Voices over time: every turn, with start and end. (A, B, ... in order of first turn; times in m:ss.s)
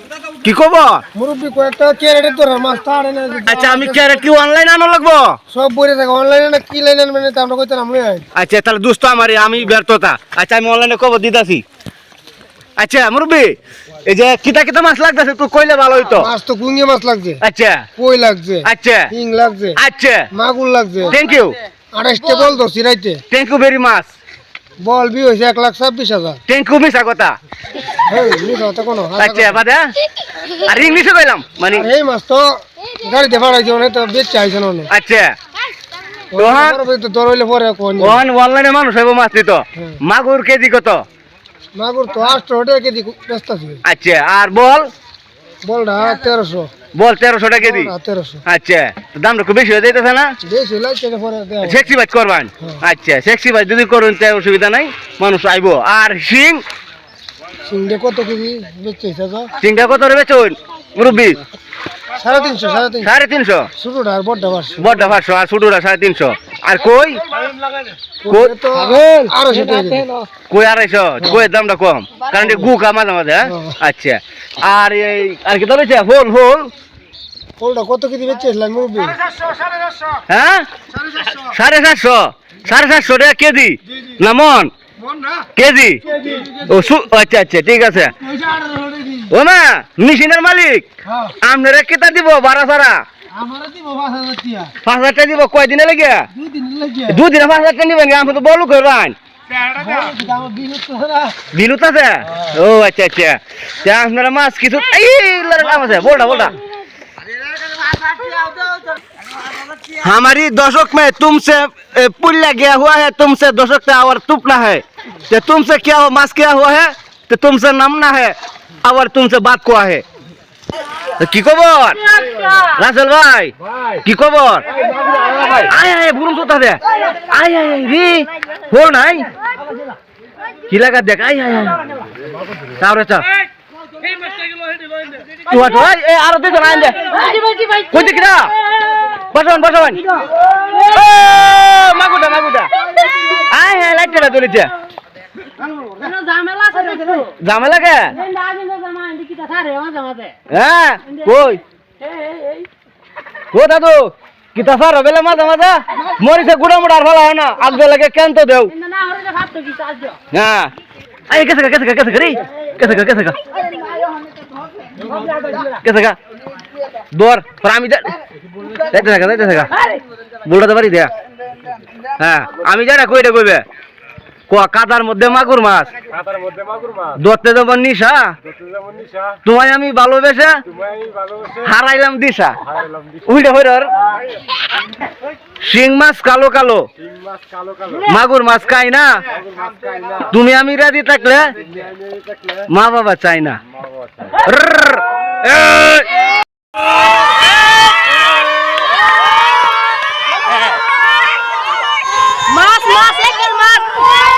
0:00.4-0:01.0 A
0:01.2-0:04.0 B
0:03.5-0:05.4 A
0:05.5-0:08.2 B
0:08.3-0:11.6 A
0:12.8-0:16.3 A
0:16.1-0:17.4 B
0:17.4-0:17.9 A
0:18.0-0:19.8 B
0:18.6-0:19.1 A
0:19.8-0:20.3 A
0:20.3-0:21.2 B
0:21.1-0:21.6 A
0:21.9-0:23.2 B
0:23.3-0:24.1 A
0:24.8-0:26.4 B
0:26.5-0:27.4 A
0:28.1-0:29.6 B
0:29.2-0:29.9 A
0:30.5-0:31.9 A
0:31.7-0:34.9 B
0:34.9-0:35.3 A
0:36.3-0:38.2 B
0:36.4-0:36.8 A
0:38.0-0:41.0 A
0:41.8-0:43.8 B
0:43.8-0:44.9 A
0:45.6-0:46.7 B
0:46.9-0:47.9 A
0:47.6-0:48.4 B
0:48.5-0:50.4 A
0:50.4-0:51.8 B
0:51.6-0:56.6 A
0:57.7-0:59.5 B
0:59.6-1:01.4 A
1:02.2-1:03.1 B
1:03.0-1:03.7 A
1:03.8-1:05.0 B
1:04.8-1:07.2 A
1:08.2-1:10.1 B
1:08.3-1:08.6 A
1:09.5-1:10.3 C
1:10.5-1:16.7 A
1:13.5-1:13.8 B
1:17.6-1:20.0 B
1:20.3-1:20.7 A
1:21.3-1:24.7 A
1:25.1-1:25.4 B
1:25.6-1:26.0 A
1:26.1-1:26.5 B
1:26.6-1:28.1 A
1:28.3-1:29.2 B
1:29.3-1:30.9 A
1:31.4-1:33.0 A
1:33.4-1:34.7 B
1:34.8-1:36.2 A
1:36.4-1:37.1 B
1:37.1-1:39.2 A
1:39.8-1:41.4 B
1:41.5-1:46.6 A
1:49.9-2:00.0 A
2:01.2-2:04.7 A
2:02.3-2:02.6 C
2:05.5-2:09.3 A
2:10.7-2:11.8 A
2:12.8-2:13.2 A
2:15.5-2:17.0 A
2:17.1-2:19.0 C
2:17.9-2:18.5 A
2:19.3-2:20.0 A
2:20.1-2:21.0 C
2:20.7-2:22.7 A
2:23.4-2:24.7 A
2:25.9-2:27.3 C
2:27.4-2:28.2 A
2:28.1-2:30.4 C
2:30.5-2:31.6 A
2:32.0-2:32.7 C
2:33.5-2:38.7 A
2:38.8-2:40.2 C
2:40.3-2:40.7 A
2:41.3-2:43.4 A
2:45.7-2:46.2 A
2:47.1-2:48.1 A
2:48.8-2:49.7 A
2:50.4-2:51.1 A
2:52.2-2:53.6 A
2:54.5-2:55.9 A
2:56.3-2:57.0 D
2:57.2-2:58.3 A
2:58.7-2:59.3 D
2:59.4-3:00.6 A
3:01.6-3:02.6 A
3:03.2-3:03.9 A
3:05.6-3:06.9 A
3:07.2-3:07.8 D
3:08.0-3:09.2 A
3:10.2-3:11.6 A
3:12.7-3:13.6 A
3:14.4-3:16.1 A
3:22.5-3:24.2 C